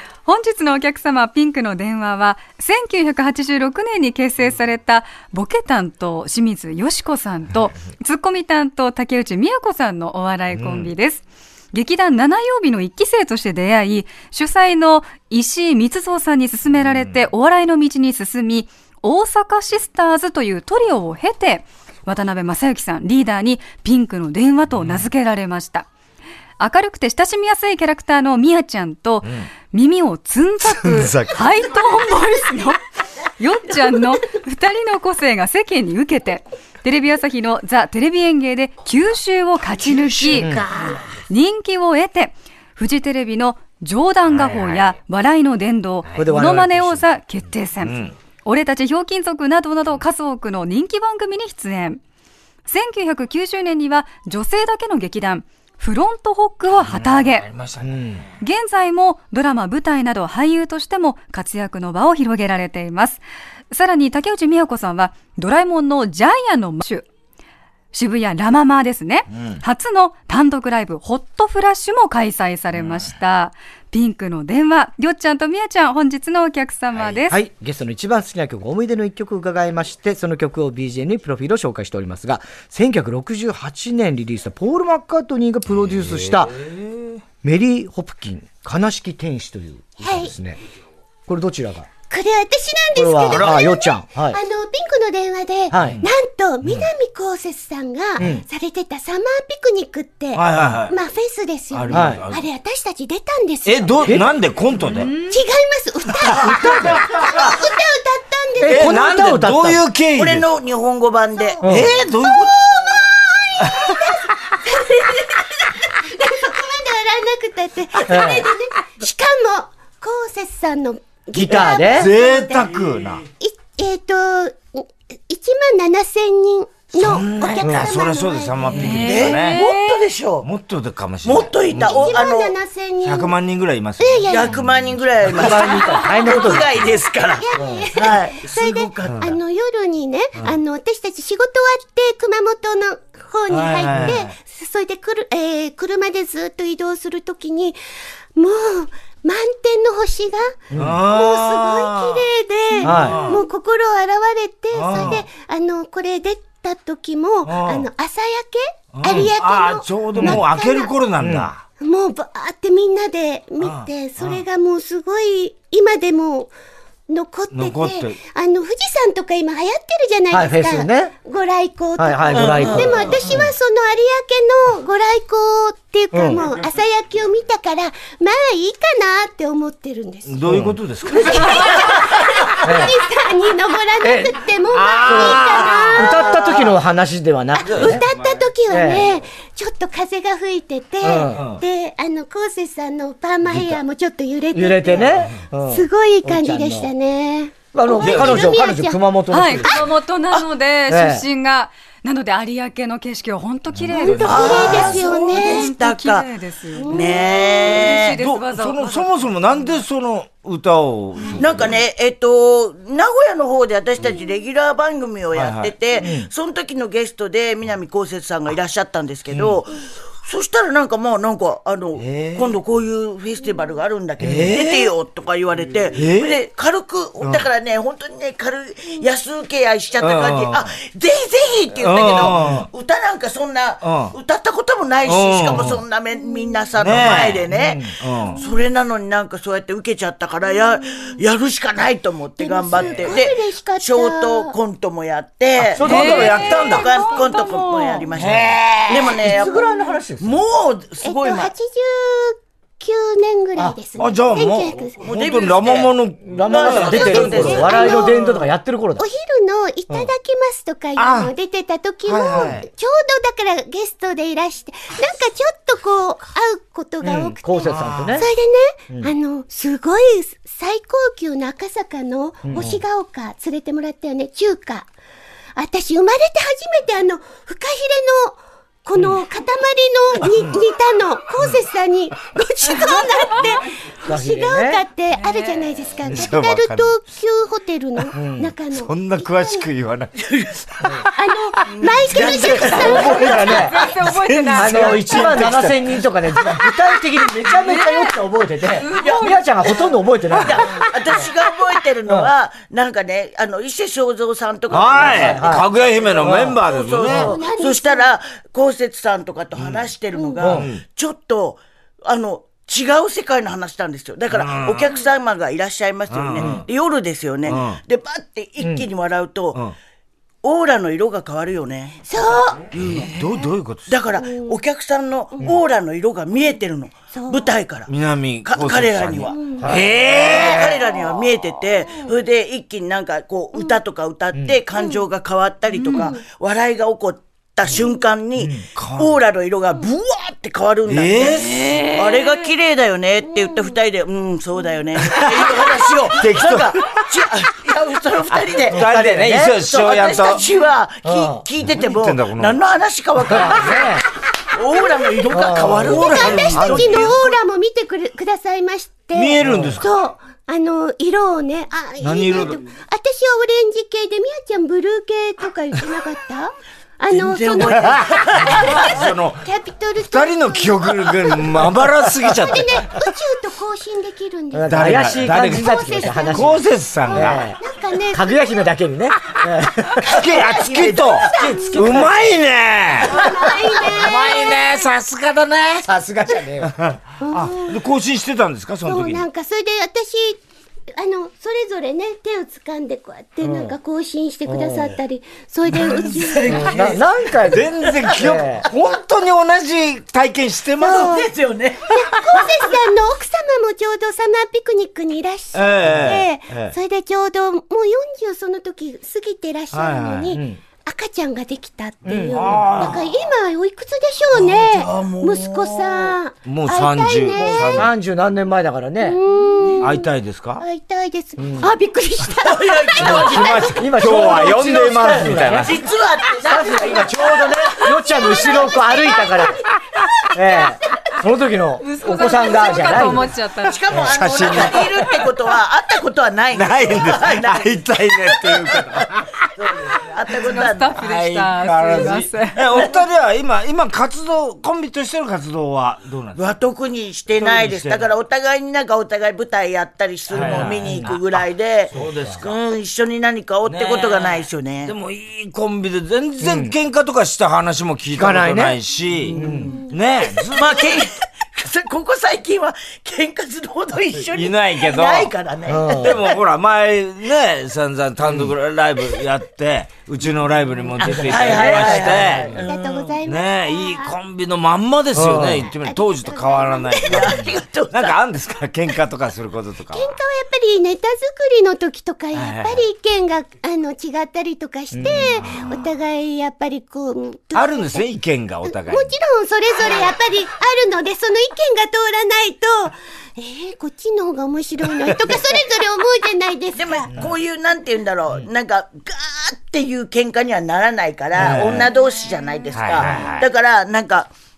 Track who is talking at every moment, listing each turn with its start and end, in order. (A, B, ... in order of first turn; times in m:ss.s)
0:00.2-0:25.9 A
0:10.5-0:10.9 B
0:16.8-0:17.3 B
0:24.8-0:25.0 B
0:26.6-0:32.8 A
0:30.8-0:31.4 B
0:33.4-0:40.6 A
0:40.3-0:40.7 C
0:41.3-0:52.0 A
0:44.3-0:44.8 B
0:46.2-0:47.0 C
0:47.8-0:48.1 B
0:52.6-0:57.5 A
0:56.8-0:58.2 B
0:57.8-0:58.2 C
0:58.4-1:07.1 A
1:07.9-1:17.4 A
1:09.3-1:09.6 B
1:12.8-1:13.1 B
1:16.9-1:17.2 B
1:17.3-1:26.6 C
1:25.8-1:27.2 B
1:27.4-1:30.6 C
1:30.0-1:30.3 D
1:31.3-1:31.9 C
1:32.1-1:44.1 D
1:32.9-1:34.4 C
1:33.3-1:33.6 B
1:35.7-1:36.0 C
1:38.2-1:38.4 C
1:40.3-1:41.0 B
1:41.7-1:42.4 B
1:41.9-1:42.2 C
1:43.6-1:45.1 B
1:45.0-1:45.3 A
1:45.2-1:49.0 D
1:46.2-1:47.5 B
1:48.6-1:49.8 C
1:48.7-1:50.4 B
1:50.1-1:51.6 E
1:51.3-2:02.7 D
1:51.6-1:51.9 C
1:51.6-1:52.9 B
1:53.6-1:54.0 B
1:58.0-1:58.5 C
2:01.3-2:02.1 C
2:01.9-2:03.2 B
2:03.4-2:08.8 D
2:07.0-2:09.7 B
2:07.6-2:07.9 C
2:08.7-2:10.0 A
2:08.8-2:10.5 E
2:10.4-2:12.3 B
2:11.2-2:12.6 E
2:11.8-2:13.3 D
2:13.0-2:15.3 B
2:14.0-2:14.6 D
2:14.3-2:19.3 E
2:15.2-2:16.9 C
2:17.3-2:27.8 D
2:17.5-2:17.9 C
2:23.5-2:24.3 B
2:28.4-2:40.9 D
2:30.7-2:31.0 C
2:30.7-2:33.4 B
2:32.8-2:33.2 C
2:34.7-2:35.2 B
2:37.4-2:37.9 B
2:38.9-2:41.6 B
2:40.2-2:40.4 C
2:41.2-2:41.5 C
2:41.8-2:46.5 D
2:43.6-2:44.4 B
2:47.1-3:00.4 D
2:47.5-2:48.2 B
2:50.3-2:51.1 C
2:52.0-2:53.1 C
2:52.3-2:53.2 E
2:53.1-2:53.5 B
2:56.1-2:56.4 C
3:00.3-3:01.8 B
3:00.4-3:00.8 C
3:01.0-3:06.6 D
3:02.6-3:03.0 C
3:04.0-3:04.4 C
3:04.7-3:06.2 B
3:05.0-3:08.0 C
3:06.3-3:06.7 E
3:07.6-3:19.0 D
3:07.6-3:08.1 B
3:08.7-3:09.1 C
3:11.0-3:11.4 C
3:11.4-3:11.6 B
3:14.5-3:16.9 C
3:17.7-3:19.9 C
3:18.0-3:18.5 B
3:19.3-3:29.1 A
3:20.9-3:21.2 C
3:23.7-3:25.0 B
3:23.9-3:25.7 D
3:24.2-3:26.3 E
3:26.7-3:27.5 D
3:26.8-3:28.2 E
3:28.1-3:31.8 B
3:31.4-4:11.5 E
3:35.3-3:35.7 B
3:36.0-3:36.3 C
3:42.0-3:42.5 B
3:44.2-3:44.9 B
3:45.9-3:46.4 B
3:47.2-3:47.5 B
3:50.0-3:50.7 B
3:51.8-3:52.7 B
3:53.8-3:54.1 B
3:55.0-3:55.8 B
3:56.3-3:57.1 D
3:56.8-3:57.5 B
3:57.5-3:57.9 C
3:58.0-3:58.4 B
4:02.4-4:04.6 D
4:02.8-4:03.1 B
4:05.6-4:06.4 C
4:05.7-4:06.9 B
4:05.8-4:08.0 A
4:06.4-4:07.4 D
4:08.1-4:09.2 B
4:09.2-4:10.4 C
4:11.0-4:15.0 D
4:14.0-4:18.1 B
4:15.0-4:18.0 E
4:16.2-4:19.0 C
4:16.9-4:18.4 D
4:19.0-4:34.9 D
4:21.0-4:21.3 B
4:22.0-4:22.6 B
4:27.0-4:28.2 C
4:27.6-4:28.2 B
4:32.4-4:32.8 C
4:35.6-4:49.7 D
4:44.0-4:44.8 C
4:45.2-4:45.6 A
4:46.1-4:46.9 B
4:48.1-4:48.5 C
4:48.7-4:51.1 B
4:51.1-4:53.5 D
4:51.8-4:53.7 E
4:52.2-4:56.0 B
4:52.5-4:53.8 C
4:53.0-4:55.3 A
4:54.5-5:00.7 C
4:57.6-4:58.2 A
4:58.7-4:59.7 A
4:59.0-4:59.3 E
5:00.3-5:19.6 E
5:04.7-5:06.6 C
5:04.7-5:07.3 B
5:07.0-5:08.1 D
5:09.6-5:09.9 B
5:10.1-5:10.4 D
5:10.4-5:10.7 C
5:10.4-5:10.8 B
5:14.3-5:14.9 B
5:16.1-5:16.6 B
5:16.4-5:16.6 C
5:17.5-5:17.8 B
5:18.6-5:18.9 C
5:20.4-5:22.0 E
5:22.0-5:22.7 D
5:22.7-5:23.1 E
5:22.7-5:23.9 B
5:23.9-5:27.9 E
5:24.1-5:24.6 D
5:27.1-5:27.5 D
5:27.9-5:30.8 B
5:28.4-5:49.0 E
5:29.2-5:29.7 D
5:29.6-5:29.9 C
5:34.8-5:35.0 D
5:35.8-5:36.1 A
5:35.8-5:36.2 D
5:38.4-5:38.6 C
5:38.7-5:39.2 B
5:40.9-5:41.8 B
5:41.9-5:42.3 A
5:43.2-5:43.8 D
5:45.0-5:46.9 B
5:48.3-5:50.4 B
5:48.7-5:49.6 C
5:49.5-5:57.4 E
5:51.0-5:51.4 C
5:51.7-5:52.6 B
5:53.2-5:54.0 C
5:55.3-5:57.1 C
5:55.7-5:57.0 B
5:55.8-6:11.7 D
5:59.1-5:59.9 B
5:59.4-5:59.8 C
6:02.0-6:02.6 B
6:07.1-6:09.1 E
6:07.9-6:09.4 B
6:10.0-6:12.9 B
6:12.3-6:18.4 D
6:14.5-6:17.6 C
6:14.7-6:17.5 B
6:18.1-6:20.3 C
6:20.0-6:23.3 B
6:20.1-6:21.2 E
6:21.1-6:22.1 C
6:21.1-6:21.8 D
6:23.0-6:24.6 D
6:23.9-6:25.9 B
6:25.8-6:26.7 C
6:26.6-6:29.2 B
6:27.2-6:27.8 D
6:28.8-6:30.4 D
6:30.9-6:36.9 D
6:33.4-6:33.7 C
6:34.5-6:35.0 C
6:35.9-6:38.3 E
6:36.4-6:38.6 C
6:37.4-6:41.1 B
6:40.8-6:41.3 D
6:40.8-6:42.6 E
6:41.9-6:57.9 D
6:45.5-6:46.7 B
6:45.8-6:46.1 C
6:49.7-6:50.4 B
6:50.3-6:50.6 C
6:52.0-6:52.7 C
6:52.3-6:53.1 B
6:54.3-6:56.1 E
6:56.4-6:57.9 B
6:57.4-6:59.2 C
6:59.0-7:03.8 D
6:59.6-6:59.9 E
6:59.8-7:00.6 B
7:01.4-7:01.7 C
7:02.3-7:07.6 E
7:03.0-7:05.7 C
7:03.0-7:05.8 B
7:06.4-7:09.6 C
7:06.6-7:09.5 D
7:10.3-7:10.6 D
7:10.3-7:13.3 C
7:11.8-7:13.8 A
7:13.6-7:21.0 E
7:13.9-7:14.4 C
7:14.1-7:15.1 B
7:16.5-7:19.5 B
7:20.4-7:22.9 A
7:20.9-7:26.4 B
7:26.4-7:34.9 E
7:27.4-7:28.1 B
7:30.3-7:31.1 C
7:30.3-7:31.2 B
7:31.9-7:32.6 B
7:31.9-7:32.4 C
7:33.6-7:40.9 B
7:36.4-7:36.7 C
7:38.1-7:38.8 C
7:39.2-7:39.9 E
7:39.3-7:39.7 C
7:40.4-7:46.4 E
7:44.2-7:45.3 B
7:45.7-7:46.2 C
7:45.9-8:00.1 B
7:48.2-7:48.5 C
7:51.0-7:52.6 C
7:51.0-7:52.7 E
7:52.5-7:54.2 D
7:55.1-7:55.7 C
7:55.6-7:57.5 D
7:57.0-7:58.2 E
7:59.9-8:08.1 D
8:02.3-8:02.8 B
8:04.9-8:05.4 C
8:05.2-8:05.7 B
8:07.5-8:09.1 B
8:08.6-8:17.1 D
8:16.8-8:24.3 E
8:21.4-8:21.9 B
8:22.7-8:23.5 B